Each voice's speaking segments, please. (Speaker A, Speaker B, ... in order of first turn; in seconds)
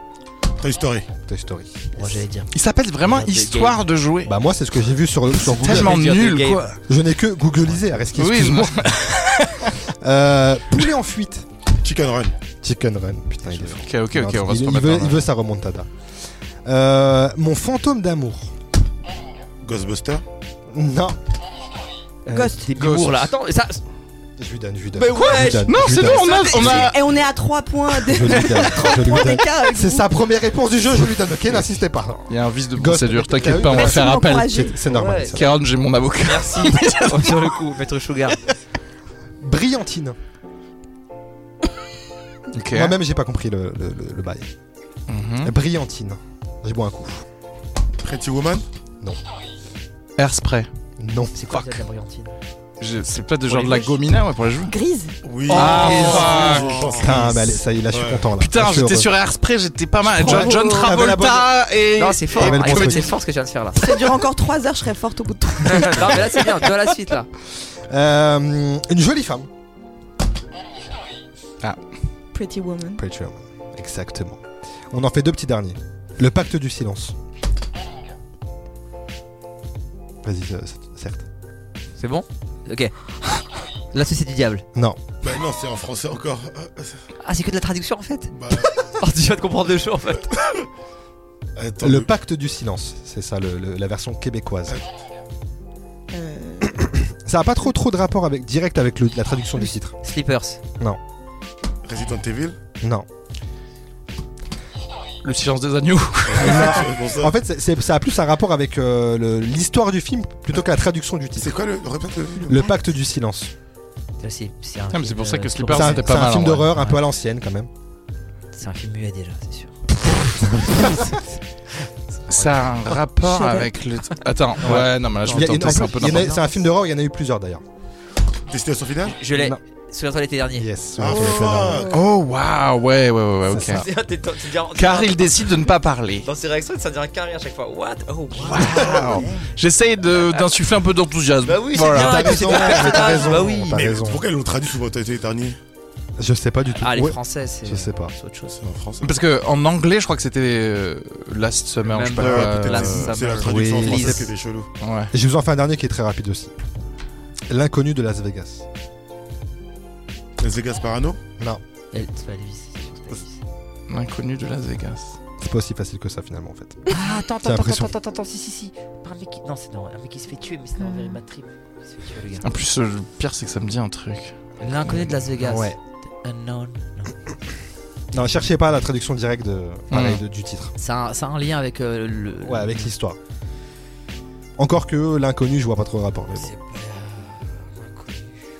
Speaker A: 0.6-1.1, 11.8-12.4, 19.6-20.2, 48.0-48.6, 55.2-58.3, 85.2-87.0, 88.3-88.8, 90.3-90.6, 91.6-92.1, 101.8-102.6, 106.3-107.3, 111.4-112.7, 128.5-129.2, 131.0-132.0, 143.7-145.6, 148.6-149.2, 152.1-154.7, 160.4-161.2
Speaker B: 1.1-2.2, 4.2-6.1, 6.9-9.1, 9.9-11.5, 12.6-15.9, 16.6-18.5, 20.7-21.2, 24.4-26.9, 28.0-35.5, 39.4-40.2, 42.7-44.5, 45.4-47.2, 51.0-51.3, 57.0-59.1, 60.0-61.5, 62.4-63.1, 66.0-66.3, 67.9-69.5, 73.0-77.2, 80.2-81.2, 84.8-85.1, 91.8-94.8, 96.8-100.0, 106.4-111.6, 112.5-113.5, 115.7-117.7, 124.6-127.6, 129.3-129.6, 130.6-131.9, 133.5-133.9, 141.9-144.2, 146.2-148.1, 153.5-154.3, 155.1-156.5, 157.5-158.6, 165.4-167.9, 174.9-175.8, 178.1-180.7, 182.4-183.2, 184.6-186.5
Speaker C: 2.0-3.8, 5.5-6.8, 22.2-23.8, 24.9-26.9, 34.9-35.4, 36.2-38.4, 51.3-52.3, 55.5-57.3, 60.2-61.0, 62.0-63.9, 65.6-67.3, 82.0-82.9, 83.9-84.6, 87.2-90.3, 100.0-100.6, 114.2-117.0, 118.5-119.8, 120.3-121.2, 122.3-122.6, 124.6-126.5, 129.1-130.7, 133.6-135.5, 136.2-139.6, 141.4-143.8, 146.8-148.6, 151.8-154.3, 161.9-163.4, 166.9-172.5, 174.6-177.1, 180.8-182.8, 186.3-188.3
Speaker D: 2.5-4.3, 5.4-6.7, 8.1-9.8, 13.8-15.3, 22.8-23.3, 25.3-27.0, 32.3-34.7, 35.3-37.6, 42.5-43.0, 45.1-45.5, 50.2-50.7, 52.8-54.7, 55.5-57.0, 58.4-63.1, 105.2-106.9, 114.9-116.7, 122.3-126.3, 131.9-133.9, 134.8-136.3, 138.4-142.8, 149.0-153.2, 154.8-155.1, 163.9-165.2, 172.4-174.3, 179.9-180.2
Speaker E: 22.3-22.7, 26.4-30.1, 33.7-34.8, 53.5-54.0, 54.7-55.2, 63.8-66.7, 72.3-73.0, 96.1-96.9, 123.3-123.7, 170.8-171.2